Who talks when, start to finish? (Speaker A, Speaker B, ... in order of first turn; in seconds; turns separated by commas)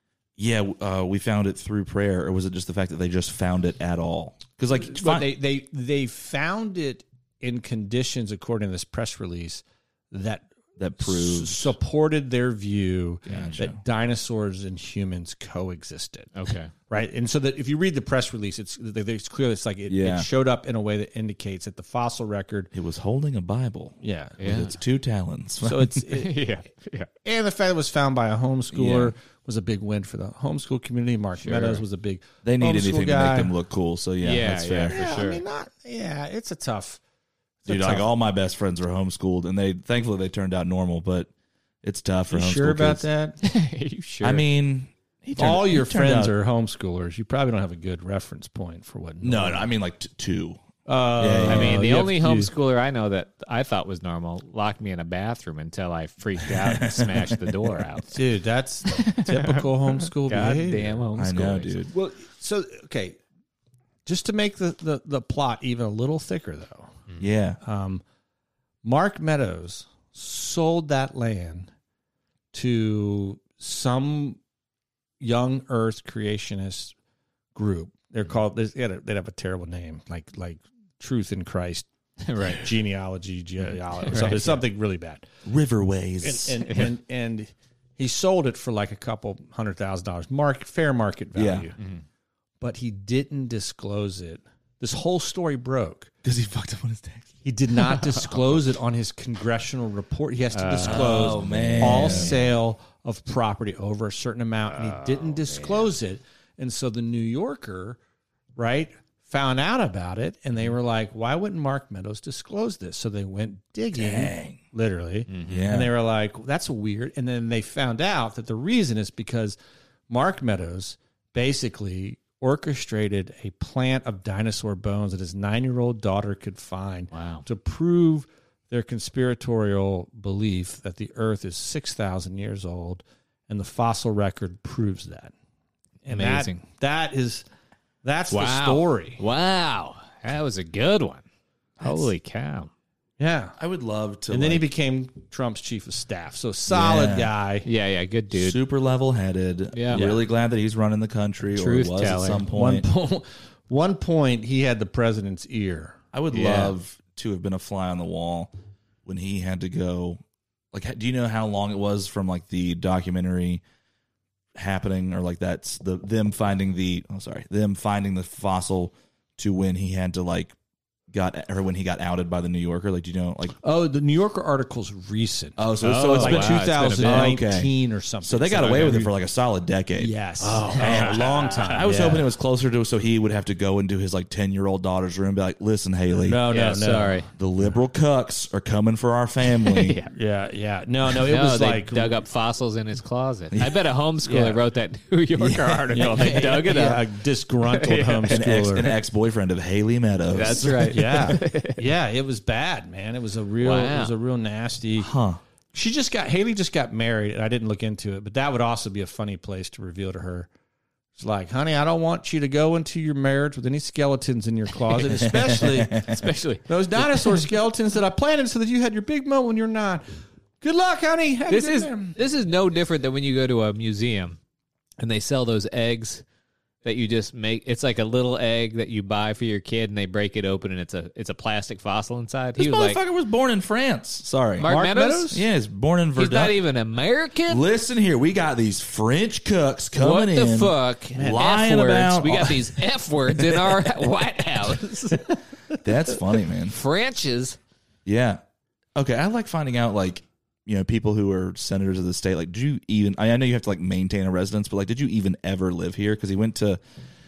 Speaker A: 0.4-5.3, Speaker B: 4.7-16.3, Speaker A: 10.8-11.7, Speaker C: 13.3-13.6, Speaker A: 13.3-13.8, Speaker C: 16.3-16.7, Speaker B: 16.9-22.7, Speaker A: 19.9-20.3, Speaker A: 22.7-25.9, Speaker B: 24.0-24.5, Speaker C: 24.4-24.7, Speaker B: 25.6-26.4, Speaker C: 26.1-27.1, Speaker B: 27.2-33.5, Speaker A: 28.7-29.1, Speaker C: 31.4-31.8, Speaker A: 32.4-35.0, Speaker C: 34.2-35.4, Speaker B: 34.9-37.0, Speaker B: 37.6-38.1, Speaker A: 37.7-41.3, Speaker A: 41.8-43.0, Speaker B: 42.3-43.4, Speaker C: 43.4-44.4, Speaker A: 44.2-46.3, Speaker B: 45.4-49.7, Speaker A: 49.2-50.6, Speaker B: 50.9-52.5, Speaker A: 51.2-51.8, Speaker C: 51.5-58.2, Speaker A: 56.5-57.8, Speaker B: 58.1-61.0, Speaker C: 58.9-61.8, Speaker A: 61.1-61.9, Speaker B: 61.9-63.2, Speaker B: 64.0-67.0, Speaker A: 67.2-67.6, Speaker B: 67.6-68.0, Speaker B: 68.8-71.7, Speaker B: 72.5-74.4, Speaker B: 75.2-76.9, Speaker B: 77.5-81.9, Speaker C: 82.2-82.7, Speaker B: 82.4-85.2, Speaker C: 84.0-84.6, Speaker A: 85.4-86.9, Speaker B: 86.2-91.8, Speaker C: 86.7-86.9, Speaker A: 91.3-91.7, Speaker C: 91.8-92.0, Speaker B: 92.6-96.1, Speaker A: 96.2-97.3, Speaker B: 97.4-108.0, Speaker C: 100.5-102.5, Speaker A: 100.8-102.3, Speaker C: 104.8-105.9, Speaker B: 108.5-119.5, Speaker A: 113.9-114.6, Speaker C: 115.3-115.7, Speaker A: 115.5-115.9, Speaker B: 120.1-135.3, Speaker C: 127.1-127.4, Speaker B: 136.0-137.4, Speaker C: 136.1-136.6, Speaker B: 138.0-139.2, Speaker C: 138.3-141.2, Speaker C: 141.8-142.7, Speaker B: 143.2-143.5, Speaker A: 143.6-144.7, Speaker B: 144.3-147.7, Speaker A: 146.7-147.3, Speaker C: 147.6-148.6, Speaker A: 148.3-152.8, Speaker C: 149.7-150.0, Speaker B: 149.9-150.2, Speaker C: 151.5-152.5, Speaker B: 152.5-156.0, Speaker A: 156.1-158.5, Speaker C: 156.3-156.7, Speaker A: 159.0-160.2, Speaker A: 160.7-163.6, Speaker A: 164.6-170.5, Speaker A: 171.1-173.6, Speaker B: 173.6-179.1, Speaker A: 175.6-180.1, Speaker C: 175.8-177.4, Speaker B: 180.0-182.3, Speaker C: 180.4-181.6, Speaker A: 180.8-186.4, Speaker B: 186.2-187.2, Speaker C: 186.5-187.3, Speaker A: 187.3-190.0, Speaker C: 189.5-190.1, Speaker B: 190.1-192.2, Speaker C: 191.2-197.1, Speaker A: 193.5-193.8, Speaker B: 194.2-194.6, Speaker A: 195.4-196.7, Speaker B: 195.9-198.9, Speaker C: 197.7-198.4, Speaker A: 198.3-201.2, Speaker C: 200.3-201.8, Speaker B: 200.9-205.1, Speaker C: 203.6-204.1, Speaker A: 205.0-205.4, Speaker B: 205.7-210.5, Speaker B: 211.2-216.1, Speaker A: 215.2-216.1, Speaker C: 216.1-217.4, Speaker B: 216.7-220.1, Speaker B: 220.6-222.2, Speaker C: 221.5-224.4, Speaker C: 225.0-226.2, Speaker C: 226.8-233.0, Speaker A: 232.6-234.7, Speaker C: 234.6-235.3, Speaker B: 234.6-235.4, Speaker A: 235.3-236.6, Speaker C: 236.2-237.7, Speaker A: 237.4-243.9, Speaker C: 239.9-245.4, Speaker B: 241.2-241.4, Speaker A: 245.8-246.8, Speaker C: 246.6-247.6, Speaker A: 248.0-248.4, Speaker A: 248.9-256.8